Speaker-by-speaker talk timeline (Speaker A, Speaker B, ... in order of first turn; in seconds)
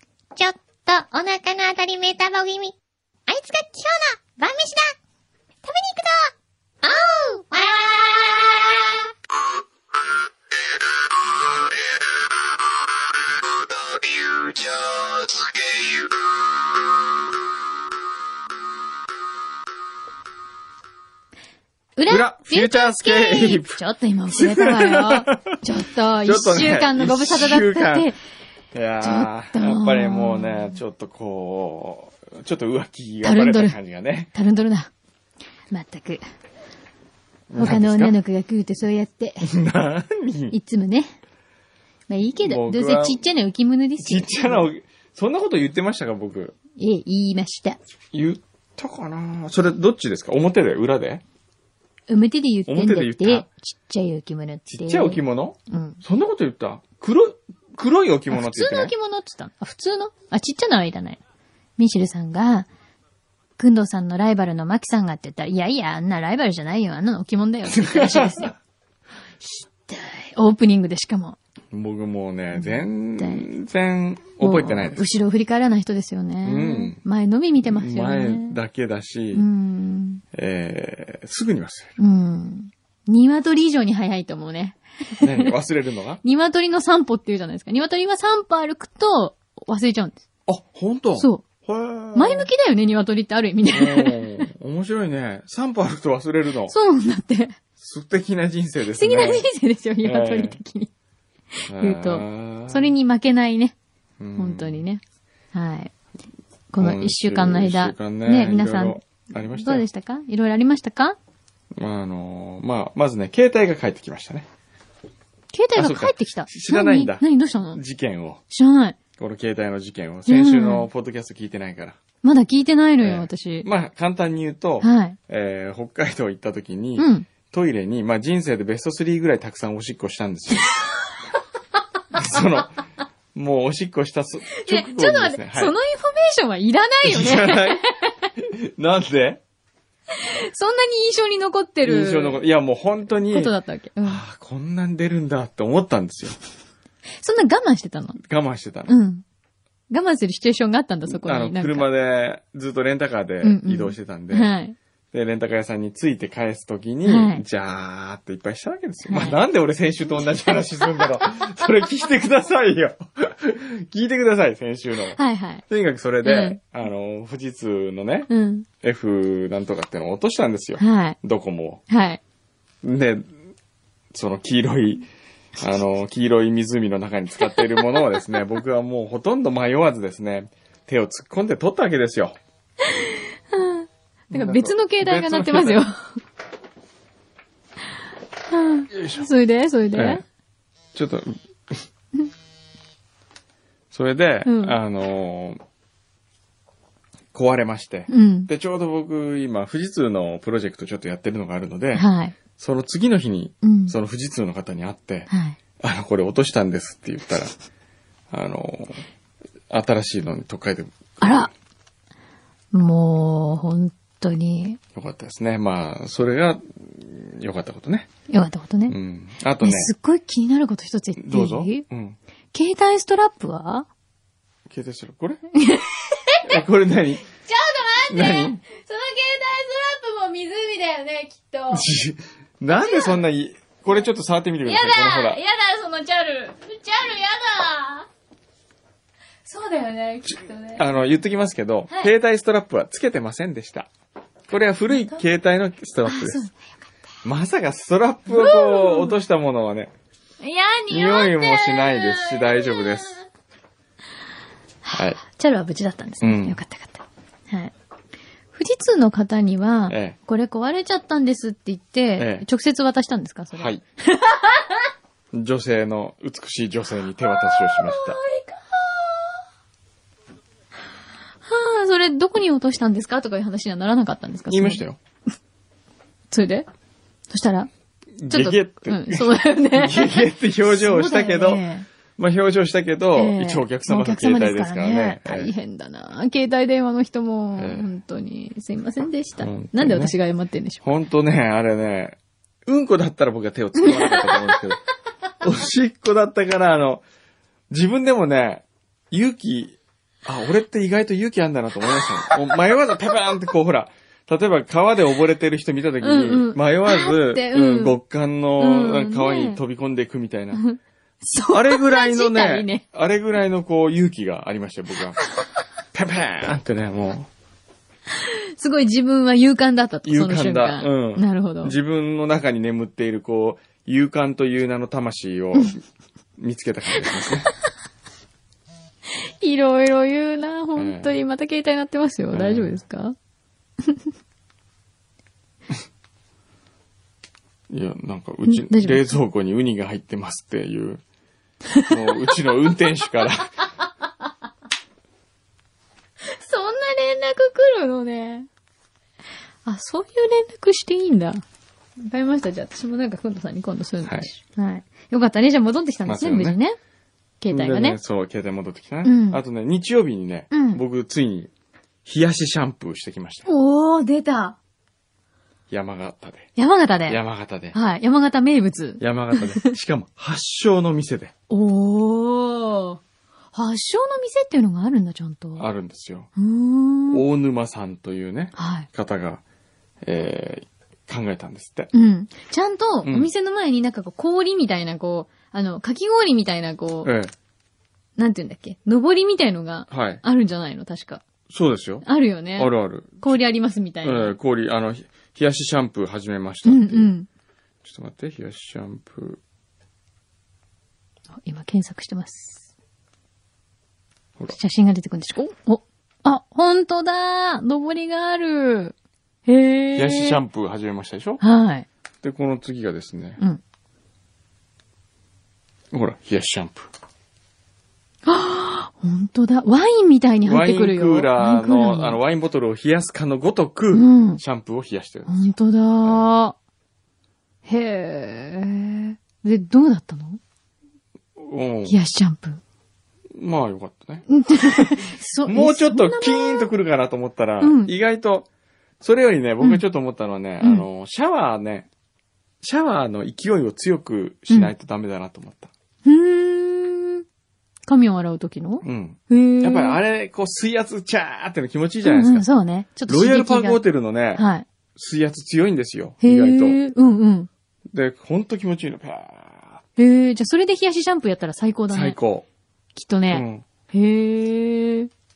Speaker A: 0.4-2.8, 3.3-5.0, 5.7-9.1
Speaker B: 22.0-28.2, 29.0-30.8, 33.2-33.8, 34.3-34.9, 35.7-36.2, 37.6-39.5, 40.5-41.1, 42.1-44.7, 46.8-47.8, 52.1-56.0, 58.3-61.2, 61.8-62.7, 63.6-68.6, 69.9-71.4, 72.5-73.5, 74.4-78.6, 79.3-80.2, 82.0-85.5, 86.2-90.2, 91.2-91.4, 92.1-94.2, 96.7-97.6, 99.0-100.9, 101.6-103.8, 104.4-105.0, 105.5-105.9, 106.7-109.0, 109.5-111.2, 115.5-117.8, 118.5-119.0, 120.3-120.9, 122.2-123.7, 124.8-125.2, 127.0-127.3, 134.6-137.8, 140.1-142.4, 143.3-144.2, 147.2-148.2, 148.9-149.2, 149.9-151.9, 153.4-154.8, 157.1-157.4, 159.1-159.4, 165.2-165.6, 166.2-166.6, 168.3-168.7, 170.8-171.2, 171.9-172.2, 177.5-178.0, 182.9-185.9, 188.5-190.2, 194.4-194.8, 198.1-198.5, 201.9-202.3, 203.6-203.9, 205.3-205.6, 211.2-211.5, 212.7-214.8, 218.3-219.0, 219.6-221.8, 222.5-223.9, 225.6-226.6, 227.5-231.9, 232.7-233.2, 234.7-238.1, 239.4-240.9, 244.9-245.2, 246.1-246.5, 248.3-249.2, 250.4-253.2, 254.8-257.7, 258.5-264.7, 267.3-269.4, 271.5-274.8, 276.3-276.7, 277.3-277.7, 278.3-281.9, 283.1-290.8, 293.8-294.6, 306.0-308.0, 308.6-309.6, 310.5-312.8, 318.2-321.8, 329.2-333.1, 338.5-339.1, 346.2-348.5, 349.6-351.4, 352.0-356.8, 357.4-358.0, 359.0-359.4, 360.5-360.8, 363.5-364.6, 366.6-367.2, 367.7-369.7, 371.5-373.0, 373.5-375.7, 376.4-377.2, 378.6-378.9, 381.9-387.1, 388.2-391.2, 392.0-394.4, 396.6-397.3, 401.4-402.7, 404.5-408.9, 409.5-410.4, 411.4-411.9, 418.3-422.2, 423.9-424.4, 425.3-426.6, 427.7-430.4, 431.9-432.6, 434.3-436.7, 437.6-437.9, 440.6-440.9, 446.1-447.2, 447.9-450.0, 452.0-453.8, 454.4-454.6, 456.2-457.5, 460.0-462.2, 462.9-465.1
Speaker C: 22.1-23.8, 24.3-25.6, 26.2-28.1, 28.7-34.3, 37.5-38.2, 39.4-40.6, 42.4-43.2, 44.0-46.5, 48.1-51.2, 52.7-53.5, 54.7-58.9, 67.7-68.5, 71.7-75.0, 76.4-77.0, 77.6-79.5, 80.3-81.9, 85.2-86.2, 90.5-92.5, 93.7-96.8, 97.8-99.5, 100.0-100.6, 101.7-102.9, 104.2-104.8, 106.8-109.8, 111.8-114.5, 115.8-118.4, 119.2-122.0, 123.0-130.8, 132.1-132.7, 133.3-135.8, 137.1-137.8, 138.4-139.4, 141.8-146.4, 148.2-149.0, 151.1-154.5, 155.1-168.3, 168.8-171.8, 172.8-173.3, 174.1-182.4, 184.3-185.8, 188.9-189.3, 189.9-190.2, 190.9-191.8, 193.9-195.6, 197.3-207.5, 208.3-209.1, 209.7-211.5, 214.9-218.1, 218.9-219.9, 221.2-222.2, 224.7-225.4, 226.4-227.2, 228.1-228.6, 231.7-235.4, 240.8-243.9, 244.5-246.4, 247.2-249.9, 250.9-253.2, 254.9-255.2, 256.2-256.6, 259.9-260.2, 262.2-262.5, 263.6-263.8, 265.3-268.2, 274.5-275.0, 278.2-281.6, 282.2-285.5, 287.6-287.9, 289.4-290.1, 290.8-294.8, 295.4-297.0, 297.7-310.6, 311.4-315.2, 315.9-317.3, 320.0-325.8, 326.4-327.5, 330.8-331.2, 332.3-332.8, 337.7-341.0, 341.9-343.5, 354.0-354.3, 356.1-356.6, 357.5-361.5, 362.1-363.5, 365.7-366.5, 367.1-367.8, 369.0-371.3, 375.6-376.3, 377.1-379.4, 380.0-381.9, 383.0-383.3, 387.0-387.3, 389.9-390.2, 391.5-393.4, 394.0-397.1, 397.8-399.4, 410.0-411.4, 412.2-413.4, 415.9-416.9, 420.4-425.5, 431.4-432.0, 433.4-438.5, 439.0-441.9, 442.6-445.7, 448.8-452.5, 453.1-454.4, 455.0-456.8, 457.9-459.8, 461.9-462.5, 463.3-463.6